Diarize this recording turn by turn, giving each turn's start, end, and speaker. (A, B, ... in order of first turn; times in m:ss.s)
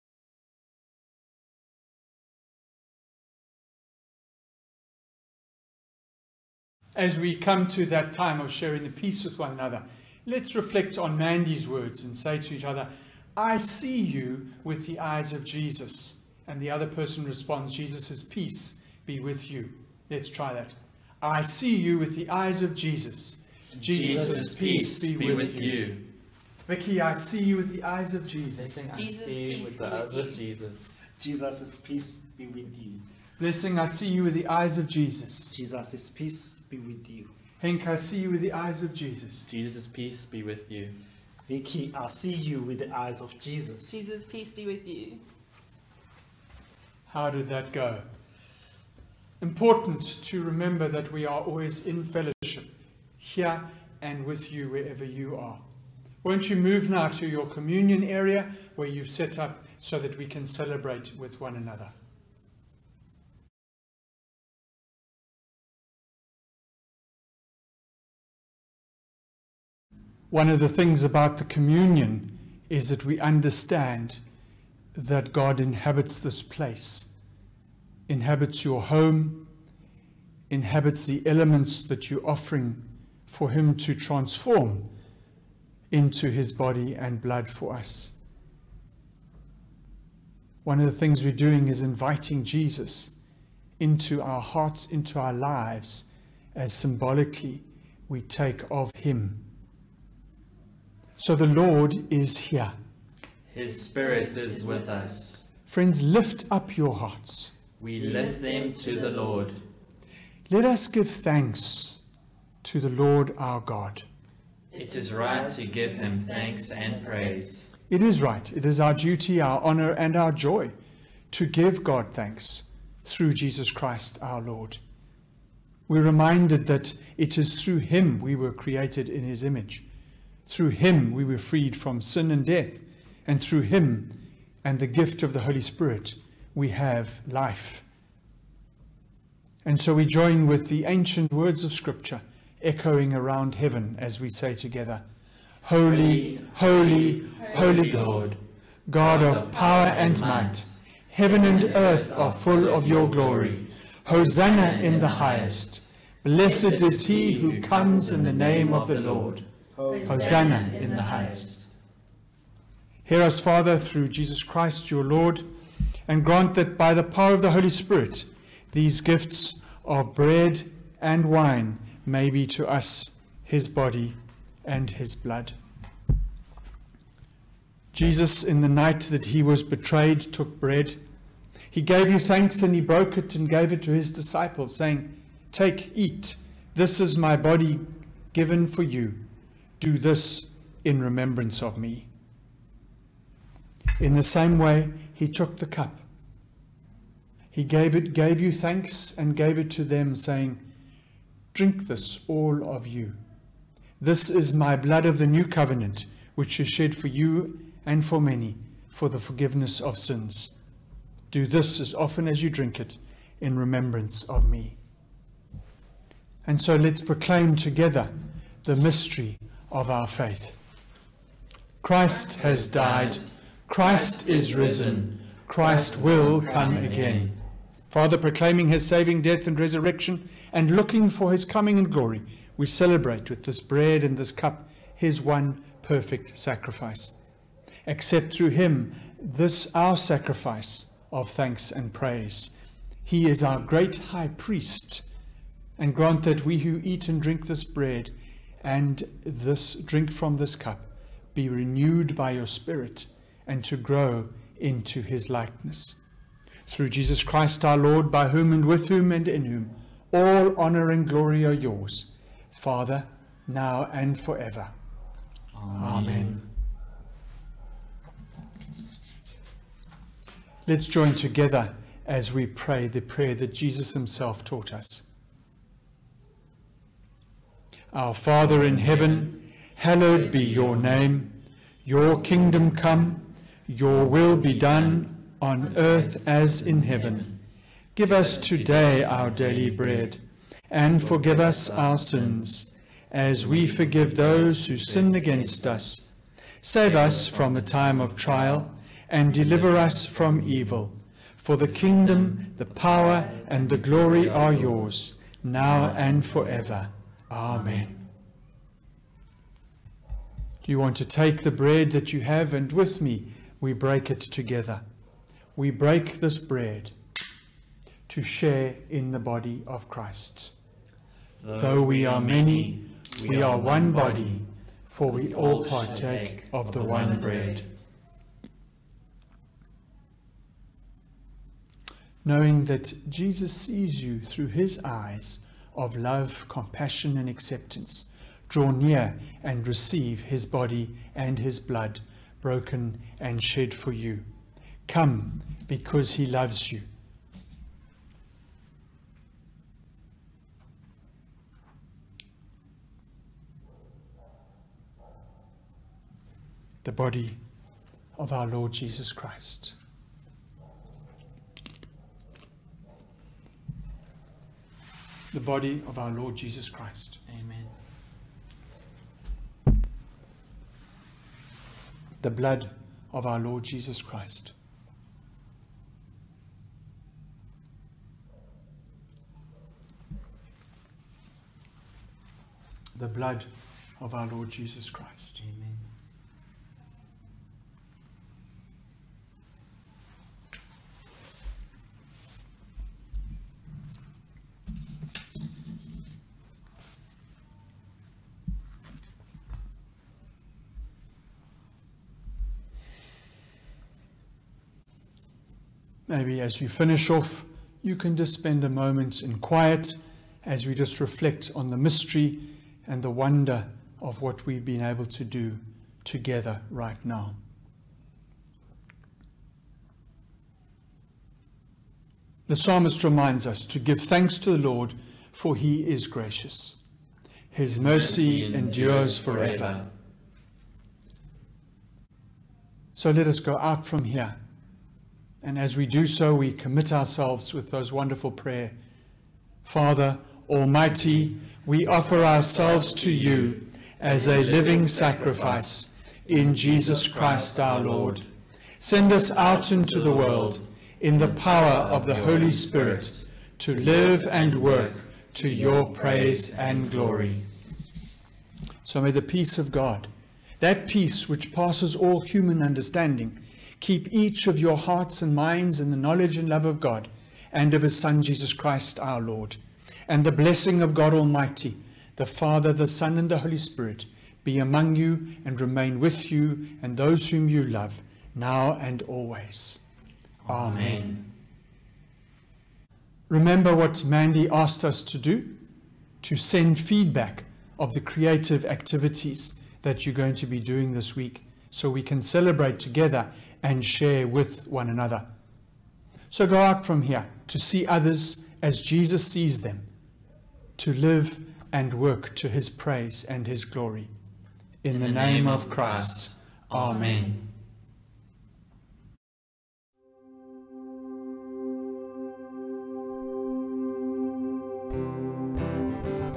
0:06.9-0:25.9 A
0:23.9-0:26.0 B
0:26.6-0:28.8 A
0:28.5-0:31.0 B
0:28.9-0:30.4 C
0:31.2-0:32.9 D
0:33.4-0:35.5 A
0:35.5-0:37.3 D
0:37.6-0:39.4 A
0:39.4-0:41.0 B
0:41.5-0:43.9 D
0:43.9-0:45.2 C
0:47.1-0:48.0 A
0:49.4-0:55.6 A
0:56.2-1:01.9 A
1:10.3-1:14.2 A
1:14.9-1:17.1 A
1:18.1-1:19.5 A
1:20.5-1:24.9 A
1:25.9-1:28.1 A
1:30.6-1:33.1 A
1:33.8-1:39.5 A
1:41.2-1:42.7 A
1:43.5-1:45.5 B
1:45.7-1:47.6 A
1:47.8-1:49.6 B
1:50.5-1:52.0 A
1:52.6-1:54.0 A
1:54.7-1:57.7 B
1:57.9-2:00.7 A
2:01.3-2:04.8 A
2:05.9-2:09.9 A
2:10.5-2:17.8 A
2:19.6-2:25.0 A
2:25.6-2:39.4 A
2:25.8-2:28.4 B
2:29.0-2:30.8 B
2:31.3-2:33.7 B
2:34.2-2:35.6 B
2:36.4-2:41.7 B
2:40.0-2:41.5 A
2:43.0-2:45.5 A
2:46.1-2:55.6 A
2:57.9-3:01.0 A
3:01.7-3:12.1 A
3:14.0-3:16.0 A
3:17.5-3:20.6 A
3:21.5-3:23.2 A
3:24.0-3:30.5 A
3:31.3-3:34.8 A
3:36.4-3:40.6 A
3:41.8-3:47.4 A
3:42.4-3:43.2 B
3:43.8-3:47.3 B
3:47.9-3:57.1 A
3:57.8-4:02.5 A
4:03.0-4:05.0 A
4:05.8-4:16.0 A
4:16.7-4:24.7 A
4:25.5-4:26.4 B
4:25.7-4:26.4 A
4:30.6-4:35.0 A
4:37.9-4:47.3 A
4:40.3-4:40.9 B
4:44.5-4:45.0 B
4:45.6-4:47.3 B
4:48.0-4:56.0 A
4:48.1-4:50.1 B
4:51.0-4:52.4 B
4:53.4-4:55.8 B
4:56.6-5:08.0 A
4:56.8-4:58.6 B
4:59.5-5:00.4 B
5:01.7-5:04.7 B
5:05.8-5:06.4 B
5:10.6-5:14.8 A
5:15.6-5:16.9 A
5:18.1-5:20.5 A
5:21.4-5:24.4 B
5:21.6-5:27.6 A
5:25.0-5:27.6 B
5:32.2-5:44.3 A
5:44.9-5:46.8 A
5:56.8-5:57.4 A
5:58.2-5:59.8 A
6:05.3-6:07.2 A
6:07.2-6:07.7 B
6:12.2-6:14.5 A
6:22.9-6:25.4 A
6:25.4-6:25.8 B
6:46.1-6:57.4 A
7:02.5-7:06.8 A
7:07.5-7:09.8 A
7:07.8-7:09.9 B
7:12.9-7:14.4 A
7:15.4-7:18.8 A
7:19.6-7:28.2 A
7:24.1-7:25.6 B
7:26.8-7:28.2 B
7:28.8-7:37.4 A
7:29.4-7:30.6 B
7:31.2-7:33.2 B
7:34.1-7:37.4 B
7:38.8-7:59.8 A
8:00.4-8:01.2 B
8:00.5-8:01.2 A
8:03.3-8:05.6 A
8:06.2-8:15.3 A
8:16.3-8:19.9 A
8:20.8-8:24.1 A
8:24.8-8:27.3 A
8:24.9-8:27.4 B